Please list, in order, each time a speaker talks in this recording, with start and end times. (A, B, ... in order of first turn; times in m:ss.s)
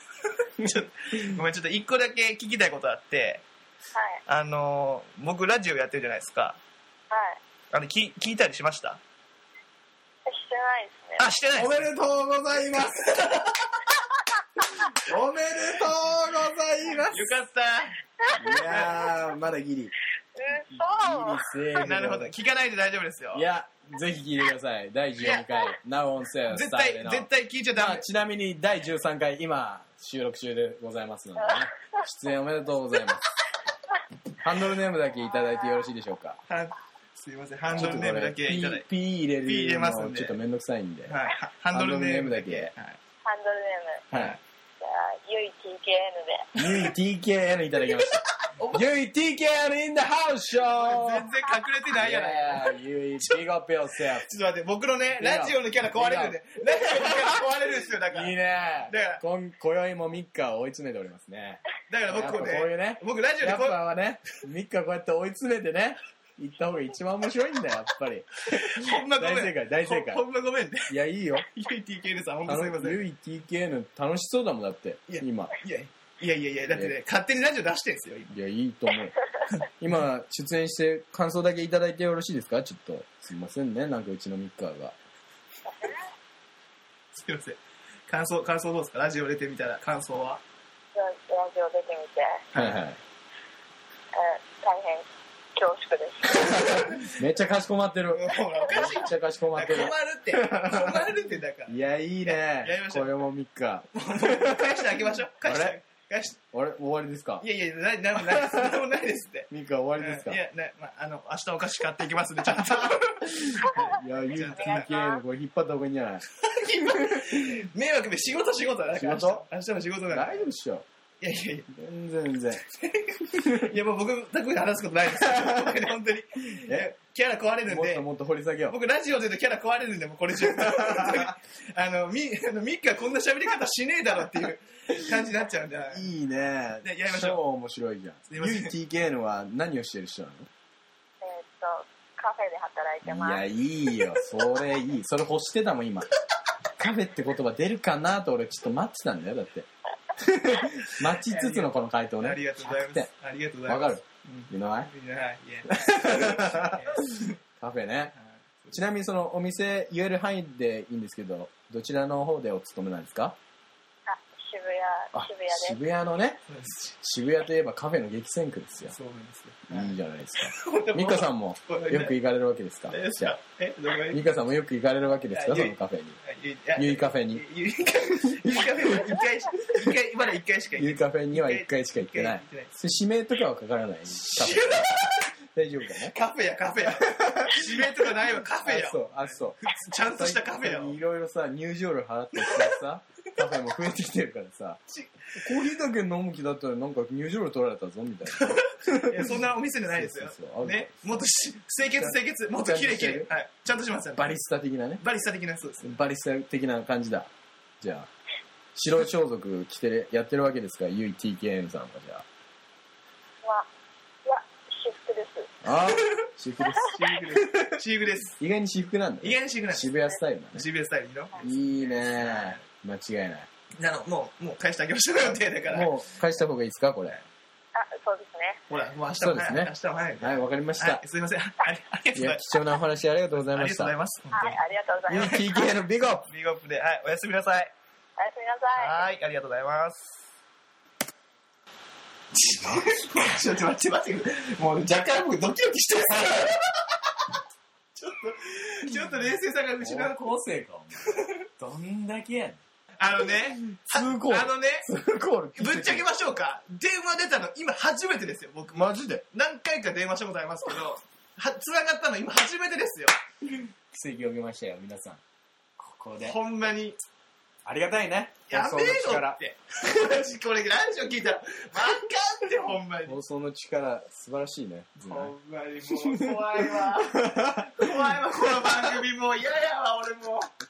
0:00.2-0:03.4 A
0:03.9-0:04.2 B
0:04.3-0:06.6 A
0:07.1-0:07.4 B
0:07.7-0:09.0 A
0:10.2-0:11.3 B
0:11.2-0:11.9 A
0:11.5-0:13.1 C
0:12.7-0:14.0 A
0:14.9-0:17.3 C
0:17.1-0:18.0 A
0:18.3-0:19.9 C
0:18.5-0:19.1 A
0:20.4-0:21.4 B
0:20.8-0:22.3 C
0:21.7-0:23.4 A
0:23.3-0:33.3 C
0:25.2-0:25.7 A
0:26.5-0:28.0 A
0:34.4-0:36.4 C
0:36.5-0:38.9 A
0:37.7-0:41.1 C
0:39.4-0:40.4 A
0:41.1-0:43.0 A
0:41.7-0:42.7 C
0:43.2-0:44.0 B
0:44.1-0:44.4 A
0:44.8-0:46.5 B
0:46.6-0:51.3 C
0:48.5-0:48.9 A
0:50.6-0:53.4 A
0:51.9-0:54.2 C
0:54.0-0:59.2 A
0:55.1-0:57.3 C
0:58.0-1:10.2 C
1:01.9-1:03.8 A
1:08.5-1:13.0 A
1:10.9-1:11.4 C
1:12.4-1:15.5 C
1:15.1-1:18.3 A
1:16.7-1:17.0 C
1:18.3-1:25.0 C
1:27.1-1:30.4 A
1:30.9-1:32.4 B
1:32.5-1:32.8 A
1:32.5-1:33.0 C
1:34.1-1:36.4 B
1:36.4-1:37.1 A
1:36.4-1:41.1 C
1:38.1-1:43.1 A
1:41.7-1:44.8 C
1:43.9-1:46.4 A
1:45.4-1:45.8 C
1:46.5-1:47.4 C
1:47.4-1:54.9 A
1:48.2-1:48.8 C
1:49.5-1:50.4 C
1:53.2-1:57.6 C
1:54.5-1:55.2 B
1:56.3-2:00.5 A
1:58.9-1:59.4 C
2:00.1-2:00.8 C
2:01.2-2:01.7 A
2:01.7-2:02.6 C
2:02.6-2:08.1 A
2:03.3-2:03.7 C
2:05.2-2:05.8 C
2:06.6-2:06.9 C
2:07.7-2:08.8 C
2:08.7-2:16.1 A
2:10.4-2:11.2 C
2:15.9-2:20.5 C
2:16.8-2:17.4 A
2:18.3-2:18.7 A
2:21.2-2:23.4 B
2:23.0-2:26.1 C
2:26.8-2:33.1 C
2:31.2-2:37.4 A
2:33.7-2:34.9 C
2:35.7-2:36.9 C
2:37.6-2:38.1 C
2:38.1-2:38.8 A
2:38.7-2:43.4 C
2:44.1-2:45.8 B
2:45.1-2:46.4 C
2:46.5-2:46.9 A
2:47.0-2:48.9 C
2:48.9-2:52.2 A
2:49.7-2:53.4 C
2:52.9-2:54.2 A
2:54.1-2:56.2 C
2:55.3-3:02.7 A
2:56.8-2:57.4 C
2:58.4-2:59.2 C
3:00.8-3:05.0 C
3:04.1-3:05.3 A
3:05.5-3:06.1 C
3:06.0-3:11.0 A
3:07.0-3:14.8 C
3:12.3-3:12.8 A
3:14.9-3:15.6 A
3:15.3-3:21.2 C
3:18.3-3:24.4 A
3:21.9-3:23.3 C
3:24.2-3:25.0 C
3:25.0-3:26.0 A
3:25.8-3:27.3 C
3:27.8-3:28.1 C
3:28.7-3:32.2 C
3:34.2-3:35.5 B
3:35.6-3:37.8 C
3:36.8-3:38.4 A
3:38.4-3:40.6 C
3:39.2-3:39.9 A
3:40.5-3:42.6 A
3:41.4-3:43.5 C
3:43.8-3:45.9 A
3:45.2-3:47.2 C
3:47.7-3:48.6 B
3:48.7-3:52.4 A
3:49.2-3:51.0 C
3:52.1-3:53.9 C
3:53.4-3:55.7 A
3:54.3-3:55.5 B
3:55.1-3:56.2 C
3:56.2-3:57.7 A
3:58.2-3:59.0 B
3:58.8-4:00.2 A
4:02.3-4:06.7 A
4:07.9-4:10.3 A
4:09.8-4:12.6 C
4:11.0-4:11.4 A
4:13.0-4:14.9 A
4:13.3-4:16.1 C
4:15.5-4:23.1 A
4:18.7-4:19.2 C
4:23.9-4:25.2 C
4:25.8-4:26.4 C
4:26.2-4:27.0 A
4:27.6-4:29.4 C
4:28.5-4:33.2 A
4:33.0-4:35.3 C
4:35.0-4:40.5 A
4:36.1-4:38.0 C